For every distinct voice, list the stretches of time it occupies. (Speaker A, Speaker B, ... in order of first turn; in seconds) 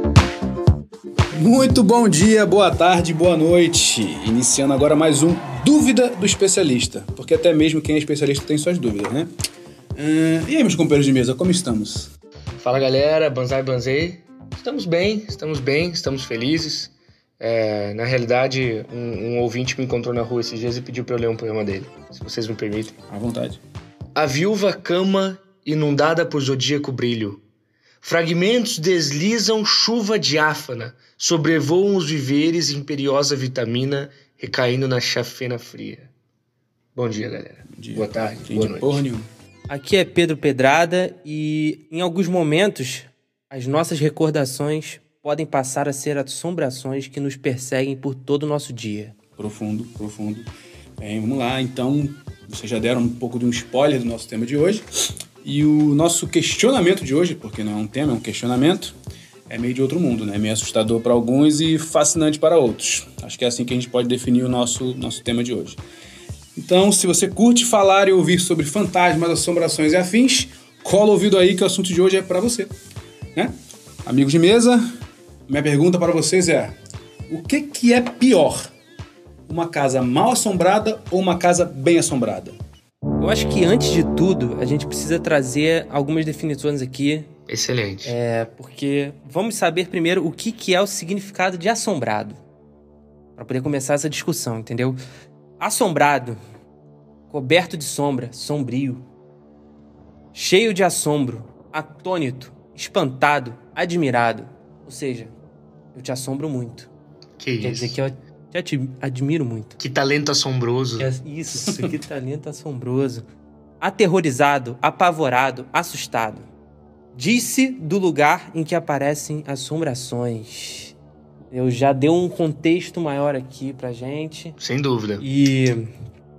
Speaker A: 1.3-9.3, 9.9-12.1, 23.1-23.6, 37.7-39.3, 49.4-50.5, 51.0-54.8, 55.4-59.0, 59.5-65.8, 66.5-72.7, 74.0-74.8, 75.5-76.8, 77.3-78.7, 79.5-82.6
Speaker B: 12.6-23.0, 24.1-27.4, 28.0-36.1, 36.9-39.0, 87.5-88.1, 107.4-108.0, 109.8-111.1, 124.6-125.2
Speaker C: 39.7-49.1, 83.2-87.3, 88.0-92.4, 93.3-95.0, 95.6-96.4, 97.3-99.0, 100.3-105.3, 105.9-106.9, 107.6-109.8, 111.0-113.2, 113.8-116.5, 117.1-120.9, 121.5-124.6, 125.2-125.8